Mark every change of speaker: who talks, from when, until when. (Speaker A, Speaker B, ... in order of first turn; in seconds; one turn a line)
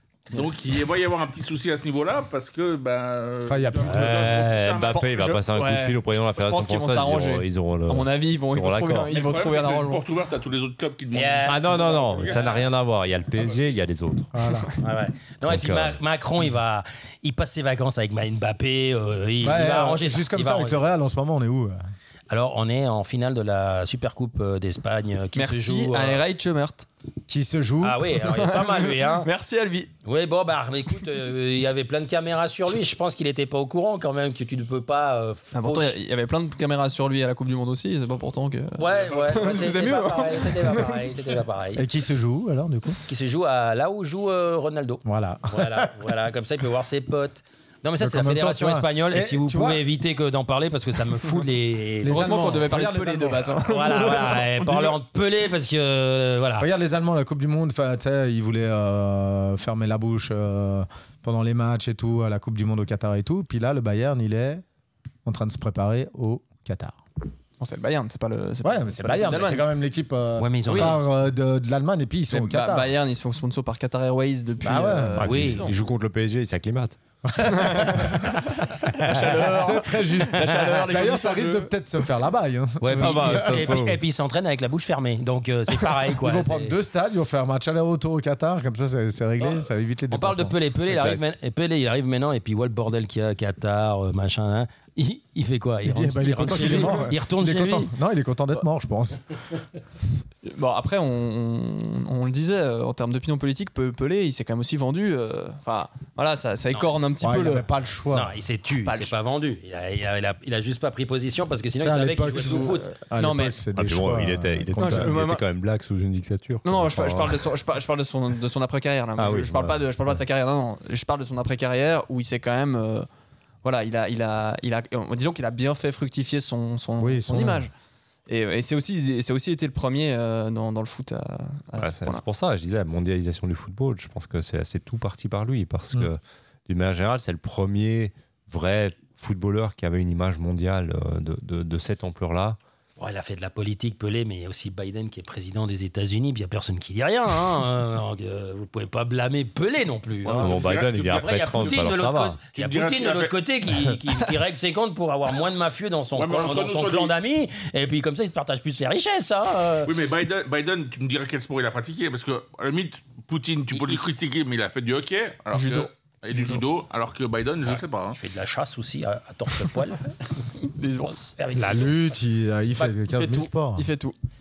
Speaker A: 0.3-5.2
Speaker B: 3.5-4.4
Speaker C: 3.9-9.1
Speaker D: 4.8-10.0
Speaker A: 9.1-12.7
Speaker E: 11.1-12.6
Speaker C: 11.4-14.3
Speaker A: 13.4-13.7
Speaker B: 14.3-14.7
Speaker E: 14.8-20.8
Speaker C: 15.4-16.0
Speaker B: 19.4-21.8
Speaker E: 22.3-26.2
Speaker D: 25.3-26.9
Speaker B: 27.3-28.0
Speaker E: 27.8-29.3
Speaker D: 28.2-29.9
Speaker E: 30.1-36.0
Speaker D: 35.5-41.1
Speaker E: 38.8-41.8
Speaker A: 38.9-39.4
Speaker B: 41.8-43.0
Speaker E: 43.1-52.6
Speaker B: 45.0-45.9
Speaker B: 48.0-49.9
Speaker B: 52.0-53.6
Speaker D: 52.1-55.0
Speaker E: 53.7-56.7
Speaker B: 56.6-64.6
Speaker B: 65.2-67.0
Speaker D: 67.6-69.7
Speaker B: 68.6-72.9
Speaker E: 70.4-71.0
Speaker D: 70.7-71.0
Speaker D: 72.3-75.7
Speaker B: 74.6-75.3
Speaker C: 75.2-77.0
Speaker E: 75.2-75.7
Speaker B: 77.3-78.3
Speaker D: 77.4-81.7
Speaker E: 79.1-79.5
Speaker B: 79.2-83.8
Speaker E: 82.8-86.8
Speaker C: 83.0-84.0
Speaker B: 86.2-90.6
Speaker E: 89.4-97.9
Speaker C: 90.9-91.2
Speaker B: 95.8-99.4
Speaker D: 100.4-107.6
Speaker B: 107.2-108.3
Speaker E: 108.1-112.9
Speaker D: 108.8-109.1
Speaker B: 111.8-115.2
Speaker D: 112.4-113.6
Speaker C: 113.8-117.5
Speaker D: 114.8-115.4
Speaker D: 116.6-123.1
Speaker C: 119.2-120.1
Speaker D: 123.6-127.7
Speaker B: 127.0-127.7
Speaker D: 128.3-132.2
Speaker C: 131.8-142.6
Speaker E: 143.0-159.9
Speaker A: 150.2-151.9
Speaker C: 150.4-152.4
Speaker A: 152.5-153.4
Speaker A: 156.1-157.1
Speaker A: 159.8-168.2
Speaker E: 163.7-164.0
Speaker D: 165.5-166.6
Speaker E: 168.1-170.1
Speaker D: 170.6-171.3
Speaker E: 171.4-172.9
Speaker B: 171.6-173.9
Speaker D: 173.1-174.1